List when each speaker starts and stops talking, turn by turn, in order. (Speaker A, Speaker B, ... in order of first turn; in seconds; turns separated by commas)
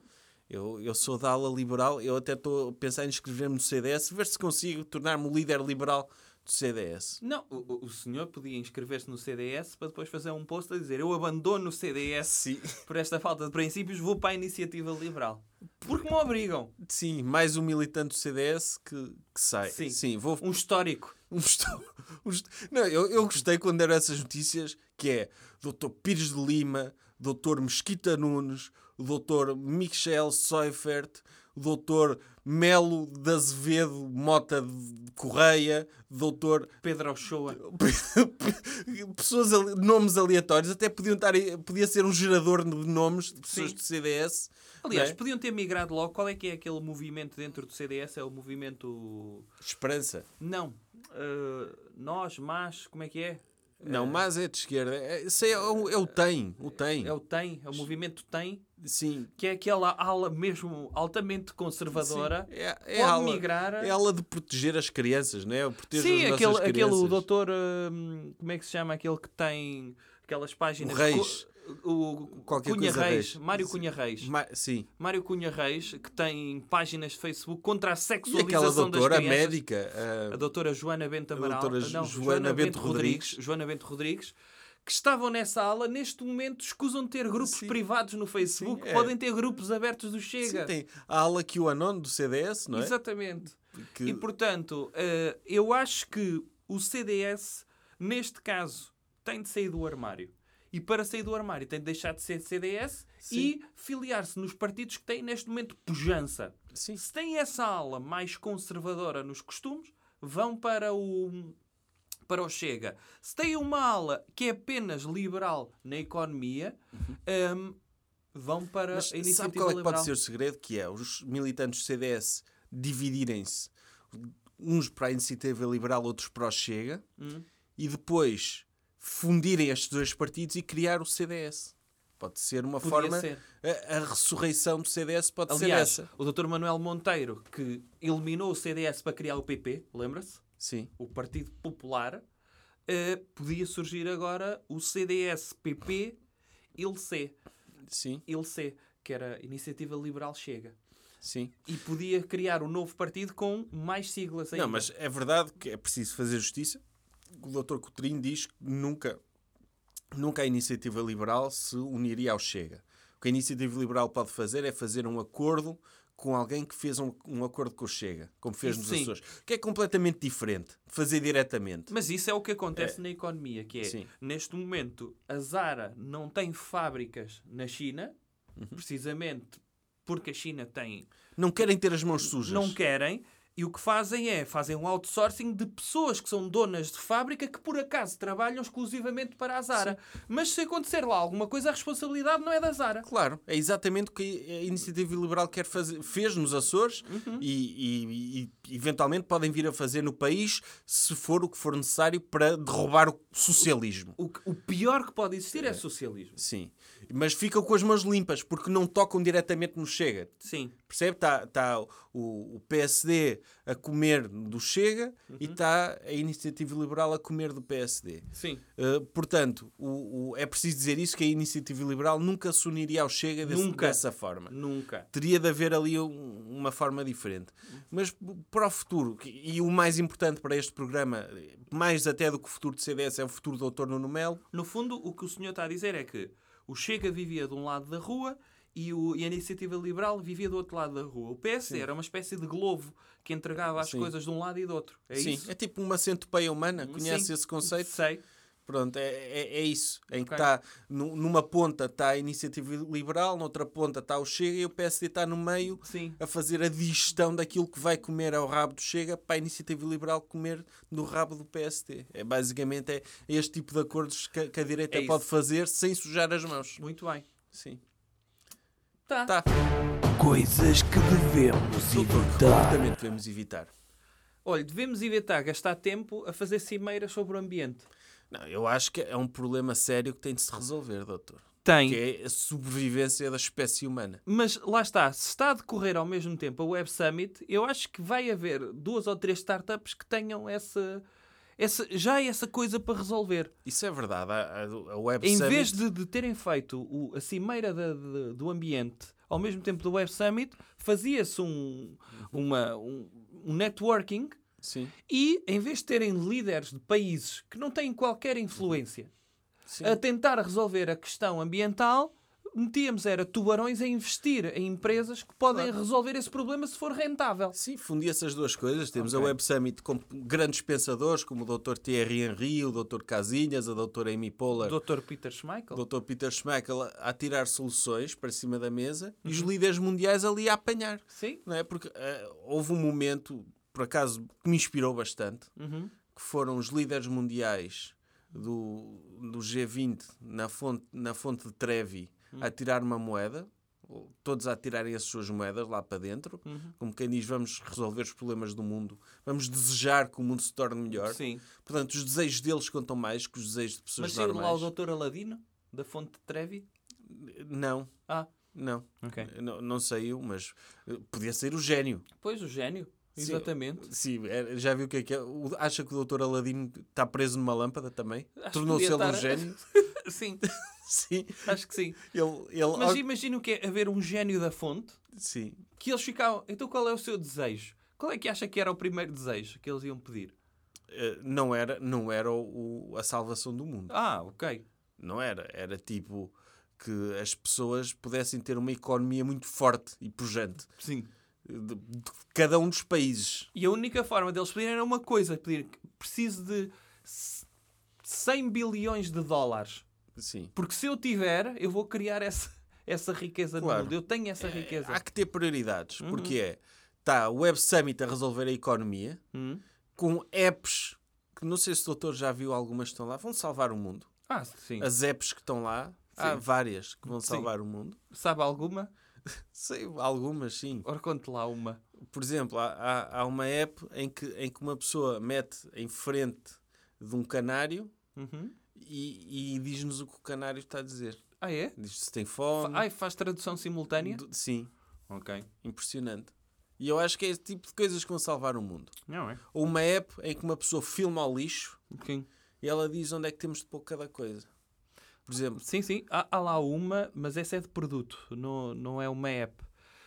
Speaker A: 0.5-7.2, Speaker B: 7.2-16.7, Speaker A: 12.2-12.8, Speaker A: 16.8-20.5, Speaker B: 19.7-21.1, Speaker A: 21.3-36.7, Speaker B: 36.8-37.6, Speaker A: 37.5-45.2, Speaker B: 43.5-43.8, Speaker B: 44.8-49.5, Speaker A: 49.6-50.3, Speaker B: 50.4-54.2, Speaker A: 53.8-57.1, Speaker B: 56.9-58.6, Speaker A: 58.8-59.3, Speaker B: 59.4-63.9, Speaker A: 61.9-67.2, Speaker B: 65.9-74.3, Speaker A: 70.8-71.4, Speaker A: 72.4-74.9, Speaker B: 75.0-79.6, Speaker A: 78.3-80.4, Speaker B: 80.3-84.3, Speaker A: 81.3-83.4, Speaker B: 84.8-90.7, Speaker A: 87.4-87.8, Speaker A: 88.4-89.1, Speaker A: 90.4-92.9, Speaker B: 92.7-111.6, Speaker A: 93.8-94.2, Speaker A: 103.2-103.5, Speaker A: 106.7-107.0, Speaker B: 112.3-117.8, Speaker B: 118.3-120.1, Speaker A: 118.9-127.0, Speaker B: 127.2-127.4, Speaker A: 127.8-136.1, Speaker B: 132.8-133.4, Speaker B: 135.5-140.4, Speaker A: 140.6-140.9, Speaker B: 141.0-142.2, Speaker B: 142.9-146.2, Speaker B: 146.8-147.3, Speaker A: 147.9-148.2, Speaker B: 148.2-150.7, Speaker A: 151.2-151.6, Speaker B: 151.7-154.9, Speaker A: 154.5-159.2, Speaker A: 160.1-171.9, Speaker B: 168.6-169.1, Speaker B: 171.9-178.1, Speaker B: 178.7-181.1, Speaker A: 181.4-182.8, Speaker B: 182.3-193.1, Speaker A: 193.0-204.2, Speaker B: 197.1-197.4, Speaker B: 204.2-206.4, Speaker A: 206.4-224.5, Speaker B: 210.4-210.7, Speaker B: 215.3-215.6, Speaker B: 218.3-218.6, Speaker B: 223.4-225.1, Speaker A: 225.1-234.4, Speaker B: 234.5-245.5, Speaker A: 243.8-244.1, Speaker A: 245.1-248.0, Speaker B: 246.8-248.2, Speaker A: 248.7-266.8, Speaker B: 250.2-250.5, Speaker B: 255.8-256.2, Speaker B: 264.9-265.2, Speaker B: 266.8-267.2, Speaker A: 267.5-267.8, Speaker B: 269.1-269.3, Speaker C: 270.2-272.8, Speaker A: 271.8-273.7, Speaker B: 274.4-277.9, Speaker A: 278.3-284.2, Speaker B: 281.6-282.0, Speaker B: 284.2-291.0, Speaker B: 291.6-293.5, Speaker A: 293.6-295.8, Speaker B: 295.2-304.4, Speaker A: 304.6-304.9, Speaker B: 305.1-309.1, Speaker A: 309.7-310.0, Speaker B: 309.8-317.6, Speaker A: 317.5-324.8, Speaker B: 318.9-319.3, Speaker B: 324.6-325.8, Speaker A: 325.7-335.5, Speaker B: 329.2-329.5, Speaker B: 331.1-331.4, Speaker B: 335.6-335.9, Speaker A: 336.1-354.7, Speaker B: 346.4-346.7, Speaker B: 350.9-351.4, Speaker B: 354.0-356.6, Speaker A: 357.1-357.9, Speaker A: 358.5-362.1, Speaker B: 359.0-359.3, Speaker B: 362.2-363.9, Speaker A: 363.2-369.6, Speaker B: 368.4-370.5, Speaker A: 370.4-373.0, Speaker B: 371.4-372.0, Speaker B: 372.7-375.0, Speaker A: 375.1-375.6, Speaker B: 375.8-380.3, Speaker A: 380.9-383.9, Speaker B: 383.9-384.6, Speaker A: 385.0-390.7, Speaker B: 390.8-391.1, Speaker A: 391.4-393.5, Speaker B: 393.5-397.5, Speaker B: 398.0-399.8, Speaker A: 400.1-400.5, Speaker B: 400.5-405.0, Speaker A: 403.6-409.2, Speaker B: 406.0-406.4, Speaker B: 409.3-409.6, Speaker A: 409.9-414.1, Speaker B: 414.3-414.9, Speaker A: 414.8-418.0, Speaker B: 416.1-416.4, Speaker B: 417.1-417.5, Speaker B: 418.1-418.9, Speaker A: 419.4-420.9, Speaker B: 420.8-421.8, Speaker A: 422.0-427.9, Speaker B: 428.1-428.6, Speaker A: 428.7-431.2, Speaker B: 431.4-431.7, Speaker A: 431.8-432.9, Speaker B: 432.6-434.2, Speaker A: 434.0-434.7, Speaker B: 435.1-435.5, Speaker A: 435.6-438.9, Speaker B: 439.1-439.4, Speaker A: 439.5-441.8, Speaker B: 441.9-442.3, Speaker A: 442.6-444.5, Speaker A: 445.2-445.6, Speaker B: 445.6-449.7